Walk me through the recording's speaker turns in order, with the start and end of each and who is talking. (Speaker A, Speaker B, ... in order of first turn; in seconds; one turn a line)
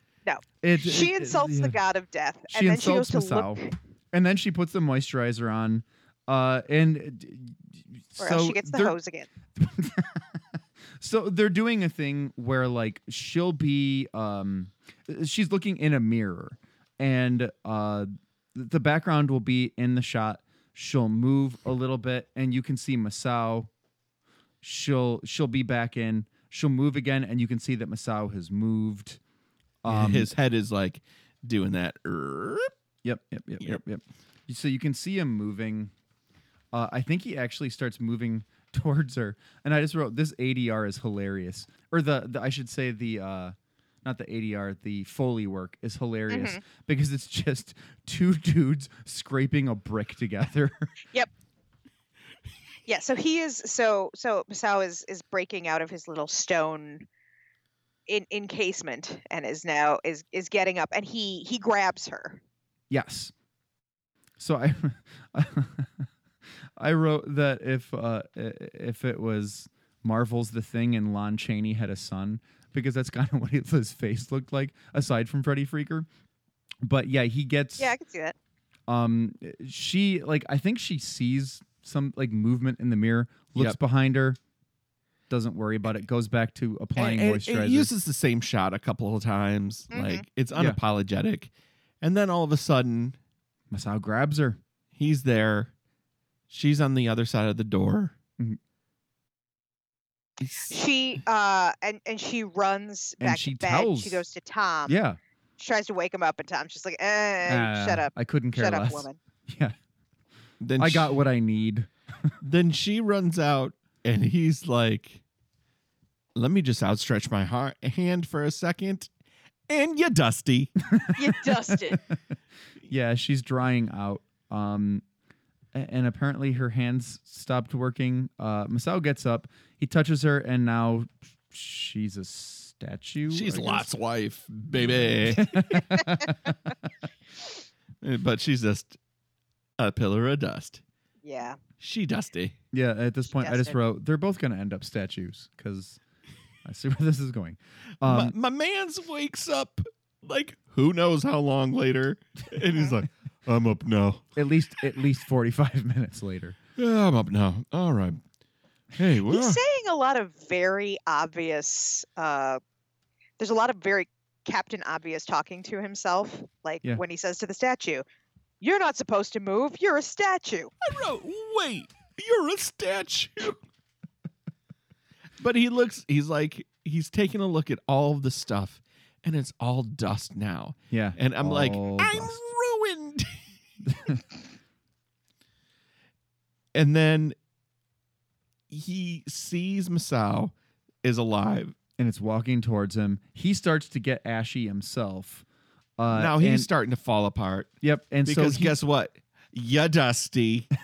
Speaker A: 0.2-3.7
Speaker B: 0.6-1.8
Speaker B: 2.5-8.9
Speaker A: 8.2-9.3
Speaker B: 9.6-23.7
Speaker B: 24.6-29.2
Speaker B: 29.8-30.3
Speaker C: 29.9-32.7
Speaker B: 33.0-35.9
Speaker B: 36.7-50.9
Speaker A: 46.3-46.6
Speaker A: 52.9-57.1
Speaker A: 58.1-62.4
Speaker B: 62.9-63.3
Speaker B: 64.4-66.1
Speaker B: 66.8-76.1
Speaker B: 76.8-77.9
Speaker A: 77.8-78.3
Speaker B: 78.9-84.4
Speaker B: 85.3-87.9
Speaker C: 87.0-91.5
Speaker A: 89.9-90.2
Speaker C: 92.0-93.2
Speaker B: 93.7-94.6
Speaker C: 95.0-95.7
Speaker C: 96.5-98.1
Speaker A: 100.7-105.0
Speaker B: 103.2-104.2
Speaker B: 104.9-105.2
Speaker A: 105.6-109.2
Speaker B: 107.5-109.8
Speaker C: 110.6-111.1
Speaker B: 110.8-112.3
Speaker C: 112.4-115.2
Speaker C: 116.3-119.1
Speaker C: 119.7-120.7
Speaker B: 120.9-121.2
Speaker A: 121.2-122.0
Speaker B: 122.9-125.0
Speaker B: 125.7-133.9
Speaker C: 133.3-135.8
Speaker B: 134.8-136.5
Speaker C: 138.0-139.0
Speaker C: 139.8-140.8
Speaker A: 141.2-141.6
Speaker C: 141.8-142.6
Speaker B: 142.7-146.0
Speaker A: 143.3-143.8
Speaker B: 146.6-148.3
Speaker C: 148.0-154.3
Speaker B: 154.3-156.6
Speaker C: 156.8-158.2
Speaker C: 158.9-159.6
Speaker A: 159.3-162.6
Speaker A: 163.4-168.0
Speaker A: 168.6-170.7
Speaker C: 170.8-173.6
Speaker C: 175.4-183.4
Speaker B: 180.9-182.4
Speaker B: 183.8-184.2
Speaker C: 186.7-187.3
Speaker C: 188.7-191.7
Speaker B: 192.0-195.4
Speaker B: 196.0-196.7
Speaker C: 196.1-197.7
Speaker B: 197.8-198.7
Speaker C: 198.2-200.7